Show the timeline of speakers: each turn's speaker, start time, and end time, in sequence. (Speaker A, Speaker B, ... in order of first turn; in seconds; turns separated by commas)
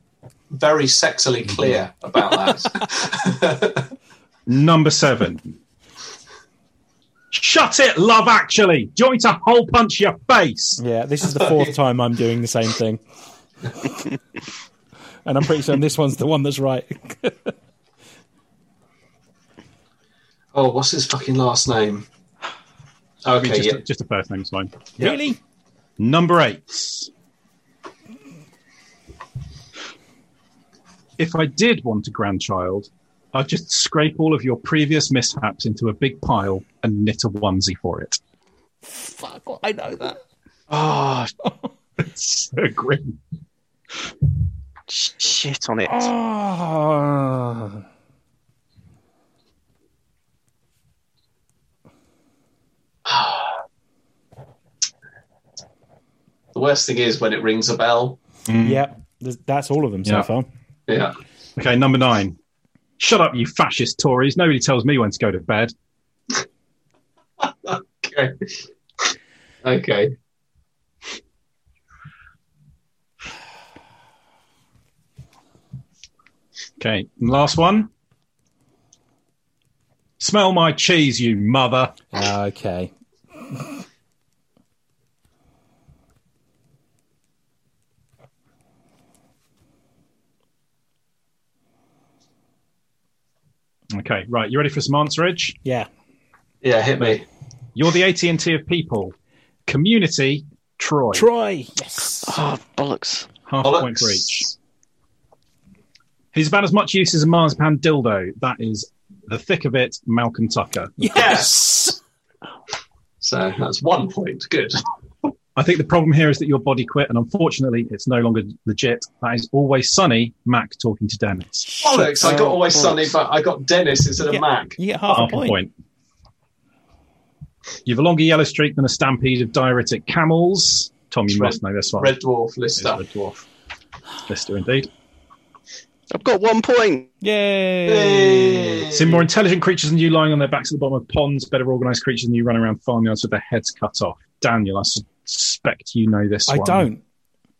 Speaker A: 0.5-3.9, Speaker B: 4.5-5.6, Speaker B: 7.3-10.8, Speaker C: 10.8-13.0, Speaker A: 11.3-11.7, Speaker C: 13.8-14.0, Speaker C: 15.2-17.5, Speaker A: 20.5-22.1, Speaker A: 23.2-23.8, Speaker B: 23.3-25.2, Speaker C: 25.0-25.4, Speaker B: 26.0-27.1, Speaker B: 31.2-38.2, Speaker C: 38.9-40.2, Speaker B: 40.7-41.3, Speaker B: 42.0-43.2, Speaker D: 44.9-46.1, Speaker C: 45.9-47.8, Speaker A: 53.0-53.5, Speaker A: 56.5-58.2, Speaker B: 58.5-58.8, Speaker C: 58.6-60.5, Speaker A: 60.9-61.1, Speaker B: 61.6-62.4, Speaker B: 63.0-65.7, Speaker A: 67.4-68.5, Speaker A: 69.6-70.1, Speaker B: 76.8-77.9, Speaker B: 80.2-82.0, Speaker C: 82.1-83.8, Speaker B: 93.9-95.6, Speaker C: 95.6-95.9, Speaker A: 96.6-97.2, Speaker B: 97.7-99.1, Speaker B: 99.7-101.3, Speaker C: 101.1-102.4, Speaker D: 102.2-103.3, Speaker B: 103.5-104.5, Speaker A: 103.6-104.5, Speaker B: 106.3-111.0, Speaker C: 111.0-112.0, Speaker A: 111.1-111.9, Speaker A: 113.2-114.8, Speaker B: 115.5-121.7, Speaker C: 121.7-122.5, Speaker A: 121.8-124.8, Speaker D: 122.2-123.0, Speaker C: 124.2-125.6, Speaker B: 125.1-125.7, Speaker B: 127.8-132.1, Speaker A: 131.3-133.0, Speaker B: 132.8-133.4, Speaker B: 134.2-134.9, Speaker D: 136.1-137.1, Speaker C: 137.2-138.9, Speaker A: 137.8-139.2, Speaker B: 138.9-146.9, Speaker C: 146.5-147.0